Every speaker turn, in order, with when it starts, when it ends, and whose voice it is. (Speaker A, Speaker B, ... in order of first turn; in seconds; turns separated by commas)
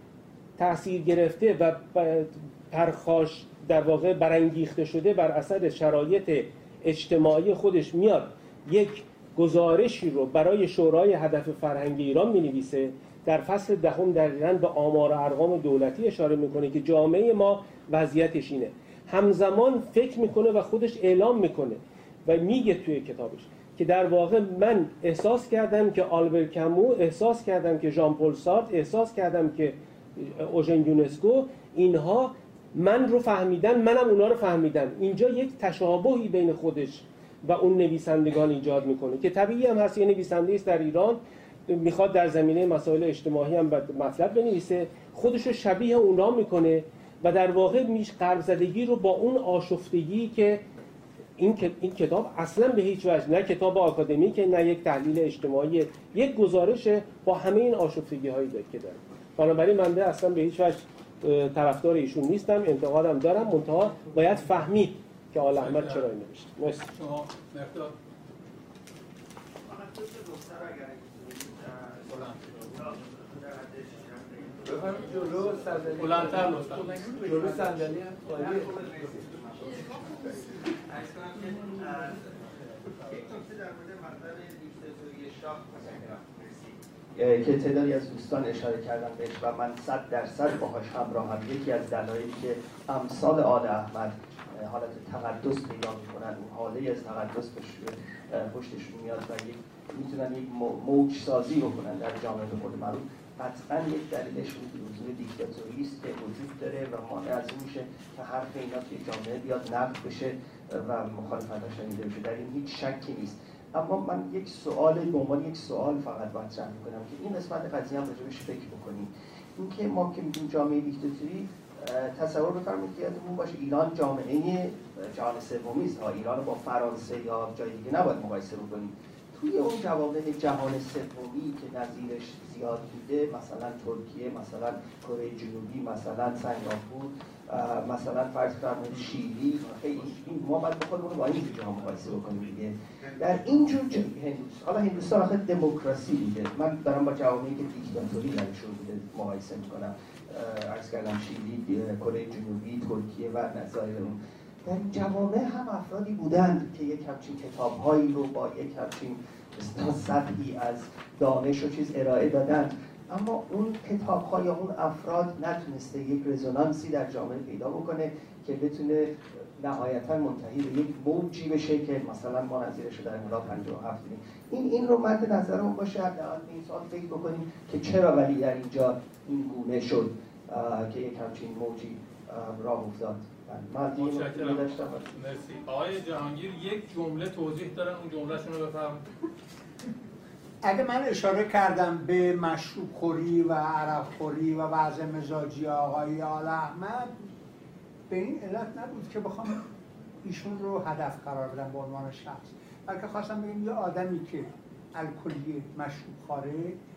Speaker A: 0.6-50.6, Speaker A: 51.4-66.9, Speaker B: 65.5-66.1, Speaker B: 66.9-67.9, Speaker B: 72.1-72.6, Speaker C: 74.9-76.6, Speaker B: 75.9-77.6, Speaker C: 78.2-79.1, Speaker D: 87.1-185.2, Speaker B: 183.9-189.0, Speaker E: 190.6-197.1, Speaker E: 198.1-199.6, Speaker E: 200.2-206.8